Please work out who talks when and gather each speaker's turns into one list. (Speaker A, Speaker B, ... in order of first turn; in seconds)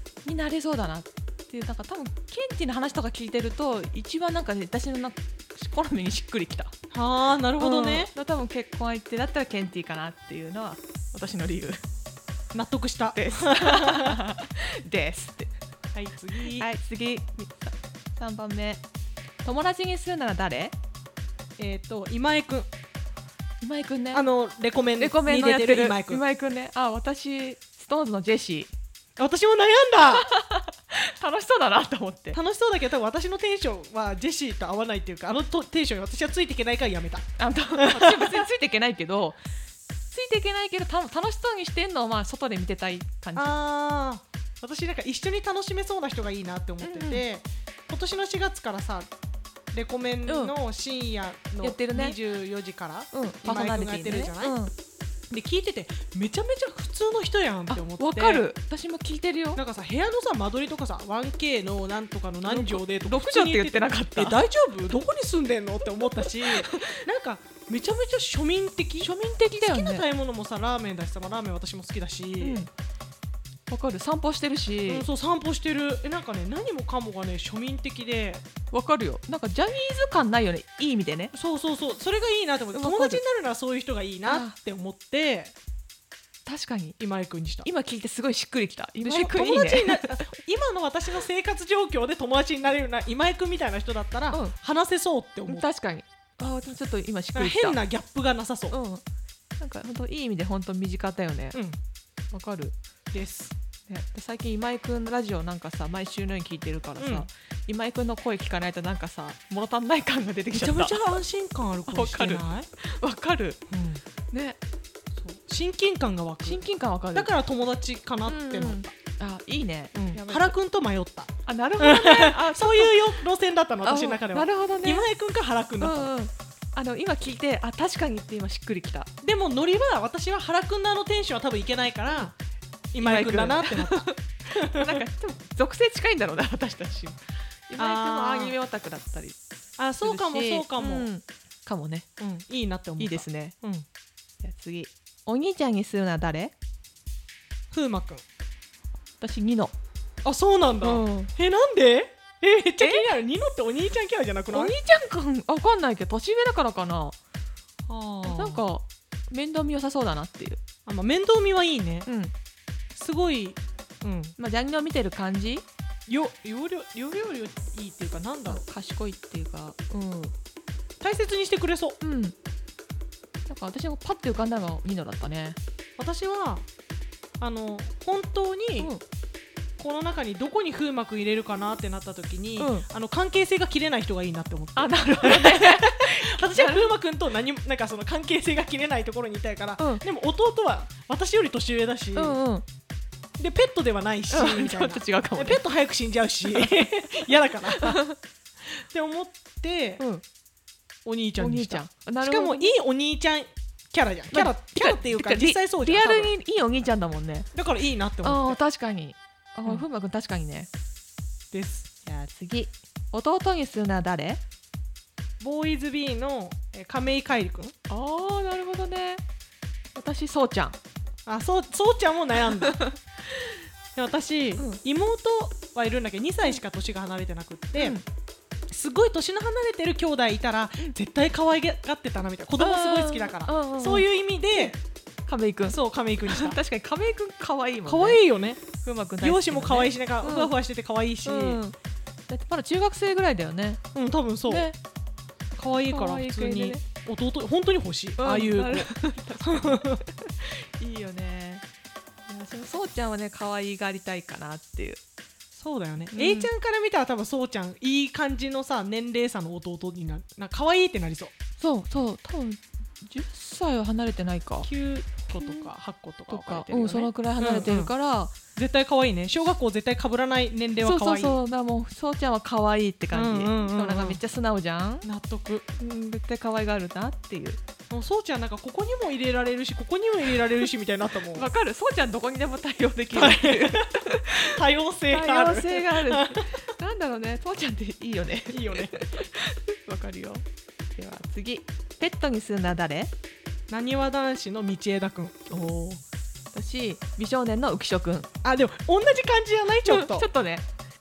Speaker A: 0.2-6.7, 7.6-11.8, 13.1-15.5, 16.5-18.8, 19.4-20.7, 23.6-24.3, 25.0-28.7, 30.1-32.4, 37.4-39.4, 40.1-43.5, 46.8-47.2, 50.3-50.5, 51.6-52.2, 53.1-54.7, 57.7-59.6, 62.5-64.4, 66.2-67.0, 69.0-70.0, 72.4-72.7, 73.7-75.0, 78.7-81.3, 82.7-83.2, 84.2-84.5, 86.5-87.0, 87.6-90.2, 95.5-97.8, 98.7-99.0, 99.6-101.6, 102.3-102.7, 103.9-111.2, 111.9-113.6, 114.3-114.6, 116.4-117.3, 118.3-120.5, 121.5-123.2, 123.8-125.0, 125.8-129.1, 133.0-139.4, 140.0-142.1, 143.0-143.5, 144.4-146.5, 149.2-149.7, 150.8-151.3, 152.8-153.1, 154.5-157.2, 158.2-160.6, 162.1-162.3, 164.4-165.6, 168.5-170.3, 172.0-172.3, 173.4-175.6, 182.6-182.8, 184.8-186.9, 189.8-190.0, 192.2-192.6, 194.3-195.6, 196.5-198.2, 201.4-202.7, 204.3-207.5, 208.2-210.7, 212.1-214.4, 217.9-219.2, 219.9-220.8, 222.7-223.6, 227.8-228.0, 232.6-234.1, 235.3-235.8, 236.3-238.2, 238.7-240.5, 241.2-241.8, 242.3-243.8, 244.5-244.8, 245.9-246.8, 248.2-251.6, 252.3-255.0, 256.1-256.5, 261.6-264.7, 265.3-265.7, 266.3-268.3, 270.8-275.1, 275.8-277.6, 281.3-284.6, 285.1-293.1, 295.5-296.0, 296.5-298.3, 299.9-300.7
Speaker B: 6.9-8.1, 12.5-14.2, 15.9-16.7, 21.6-22.7, 24.1-26.2, 29.2-30.3, 32.3-38.5, 43.3-49.1, 49.7-54.5, 55.3-58.5, 59.5-72.7, 74.9-78.4, 81.3-85.5, 87.0-87.7, 89.0-95.7, 97.3-98.8, 103.1-103.5, 107.0-107.3, 110.5-112.7, 113.7-114.0, 115.2-116.6, 117.1-118.9, 119.9-126.1, 129.2-132.3, 132.9-135.0, 137.8-138.6, 139.8-141.1, 142.2-143.8, 147.7-148.2, 150.2-154.8, 157.9-158.6, 160.8-162.1, 162.9-164.3, 166.1-168.6, 171.0-172.0, 176.0-176.7, 177.4-178.9, 179.8-192.4, 193.4-198.0, 198.7-200.0, 201.1-206.3, 207.5-208.6, 211.5-211.9, 215.4-217.7, 221.2-222.8, 223.9-228.0, 228.7-234.8, 235.7-236.6, 237.8-238.6, 239.2-241.6, 243.9-244.7, 245.6-250.0, 255.5-261.3, 264.6-267.9, 268.6-271.4, 273.1-274.2, 275.0-275.6, 277.9-281.5, 283.1-286.6, 288.5-289.1, 293.7-295.4, 298.4-300.3